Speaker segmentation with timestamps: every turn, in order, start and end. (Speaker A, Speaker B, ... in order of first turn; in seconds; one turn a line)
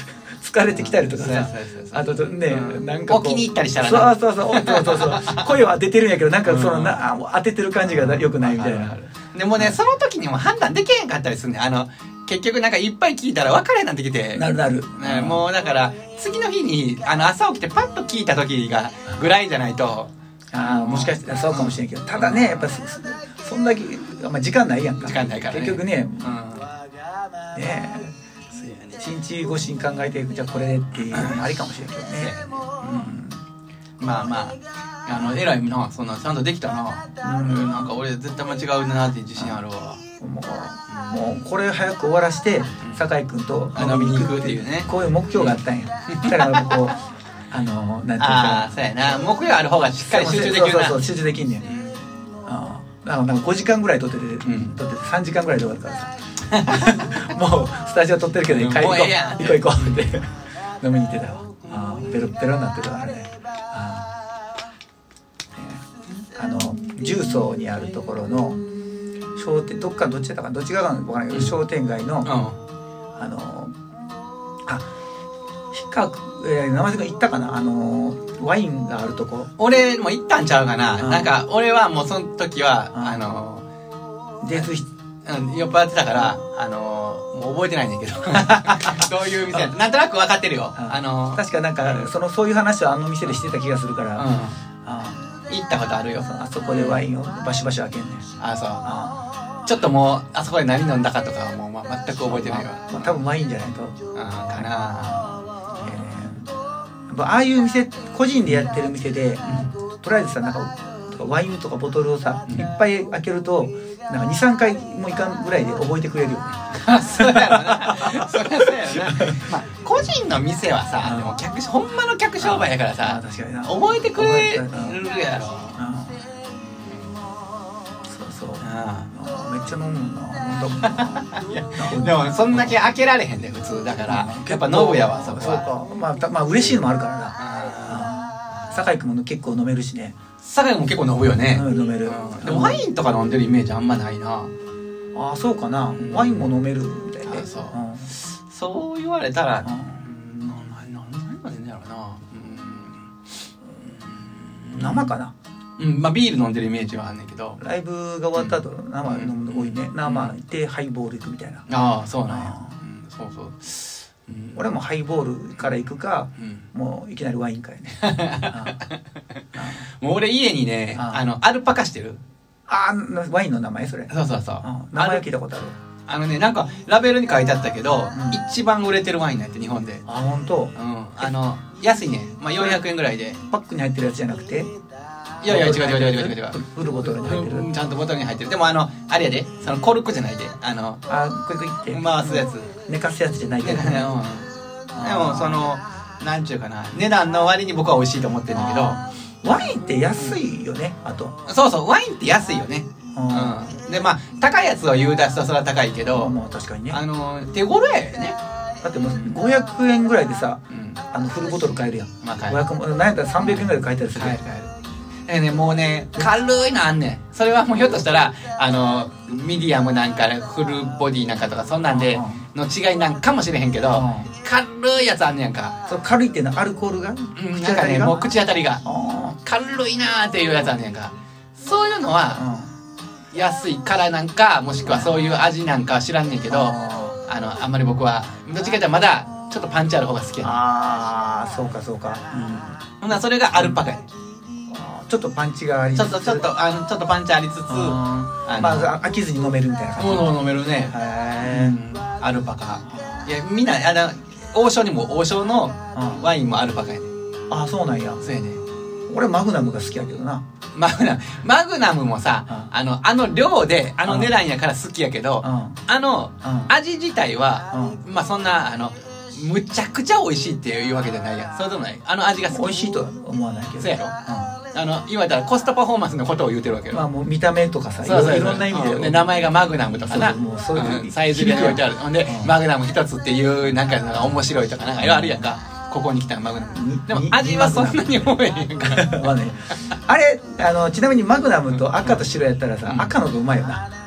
Speaker A: 0.4-8.9
Speaker B: 0.7-5.7
Speaker B: 6.4-7.0
Speaker B: 7.9-22.8
Speaker A: 14.3-15.5
Speaker A: 20.5-26.4
Speaker B: 25.0-26.7
Speaker A: 27.5-28.1
Speaker B: 28.5-29.1
Speaker A: 29.0-33.4
Speaker B: 31.1-31.5
Speaker B: 32.1-33.2
Speaker B: 34.0-40.0
Speaker A: 34.0-34.3
Speaker A: 37.2-38.0
Speaker A: 40.2-47.0
Speaker B: 40.9-41.3
Speaker B: 42.8-43.1
Speaker B: 43.7-46.9
Speaker A: 47.5-48.7
Speaker B: 48.2-51.1
Speaker A: 50.0-51.7
Speaker B: 51.6-52.1
Speaker A: 52.5-64.1
Speaker B: 54.4-54.8
Speaker B: 56.5-57.2
Speaker B: 58.4-60.1
Speaker B: 61.7-62.0
Speaker A: 65.5-65.8
Speaker A: 66.3-68.6
Speaker A: 69.3-72.3
Speaker B: 71.3-71.6
Speaker B: 72.2-72.6
Speaker A: 73.2-73.7
Speaker A: 75.7-79.5
Speaker B: 79.6-83.7
Speaker A: 81.0-81.4
Speaker A: 82.9-83.2
Speaker A: 84.4-84.8
Speaker B: 85.2-92.1
Speaker A: 88.6-89.1
Speaker A: 90.8-94.2
Speaker B: 94.2-94.6
Speaker A: 94.8-95.2
Speaker B: 95.5-97.0
Speaker A: 96.1-98.2
Speaker B: 98.4-98.9
Speaker A: 98.8-99.2
Speaker B: 99.7-103.2
Speaker A: 102.2-106.5
Speaker B: 104.1-106.1
Speaker A: 107.1-119.5
Speaker B: 108.4-108.7
Speaker B: 109.5-109.7
Speaker B: 116.6-125.8
Speaker A: 121.0-121.4
Speaker A: 122.4-125.0
Speaker A: 125.7-126.2
Speaker B: 126.5-127.1
Speaker A: 128.1-132.8
Speaker B: 128.6-129.1
Speaker B: 130.5-135.7
Speaker A: 134.0-140.1
Speaker B: 137.4-138.9
Speaker B: 140.4-144.5
Speaker A: 141.5-142.8
Speaker A: 145.1-148.1
Speaker B: 145.9-146.5
Speaker B: 147.2-153.1
Speaker A: 149.6-150.0
Speaker B: 153.7-155.1
Speaker A: 154.7-155.3
Speaker B: 155.8-157.6
Speaker A: 157.6-161.7
Speaker B: 158.3-160.3
Speaker B: 161.7-164.7
Speaker A: 162.2-162.8
Speaker A: 164.5-168.8
Speaker B: 166.4-166.6
Speaker B: 168.0-172.2
Speaker A: 169.6-169.8
Speaker A: 170.9-171.2
Speaker A: 172.7-174.1
Speaker B: 174.1-175.2
Speaker A: 174.6-175.7
Speaker B: 176.1-180.0
Speaker A: 178.1-178.4
Speaker A: 180.1-181.3
Speaker B: 180.7-183.4
Speaker A: 182.6-182.8
Speaker A: 183.5-184.7
Speaker B: 185.4-191.0
Speaker A: 185.4-187.7
Speaker A: 191.1-194.1
Speaker B: 191.9-192.7
Speaker B: 193.6-199.0
Speaker A: 194.9-195.7
Speaker A: 198.5-201.3
Speaker B: 199.6-200.4
Speaker B: 201.4-206.3
Speaker A: 203.1-203.6
Speaker A: 206.1-207.0
Speaker B: 206.9-208.4
Speaker A: 208.8-214.4
Speaker B: 209.1-209.4
Speaker B: 210.7-211.0
Speaker B: 212.2-212.6
Speaker B: 213.4-214.7
Speaker B: 215.3-225.8
Speaker A: 221.9-222.4
Speaker A: 223.9-224.3
Speaker A: 225.9-228.2
Speaker B: 227.3-228.8
Speaker A: 228.8-229.4
Speaker B: 229.4-232.4
Speaker A: 232.3-232.7
Speaker B: 233.3-236.7
Speaker A: 234.8-235.3
Speaker A: 236.5-237.2
Speaker B: 237.2-240.6
Speaker A: 240.4-243.8
Speaker B: 243.0-244.1
Speaker A: 244.7-246.5
Speaker B: 245.9-248.9
Speaker A: 247.7-250.3
Speaker B: 250.0-257.1
Speaker A: 250.9-251.8
Speaker A: 252.9-253.3
Speaker A: 255.9-256.3
Speaker A: 257.5-258.2
Speaker B: 258.2-258.6
Speaker A: 259.1-260.4
Speaker B: 260.7-272.8
Speaker A: 264.0-264.3
Speaker A: 265.4-265.8
Speaker A: 266.4-266.7
Speaker A: 267.7-268.0
Speaker A: 272.4-274.5
Speaker B: 273.8-274.1
Speaker B: 274.7-277.1
Speaker A: 276.9-279.3
Speaker B: 278.0-289.7
Speaker A: 280.1-282.6
Speaker A: 285.0-285.5
Speaker A: 286.7-293.8
Speaker B: 291.8-292.3
Speaker B: 292.9-293.1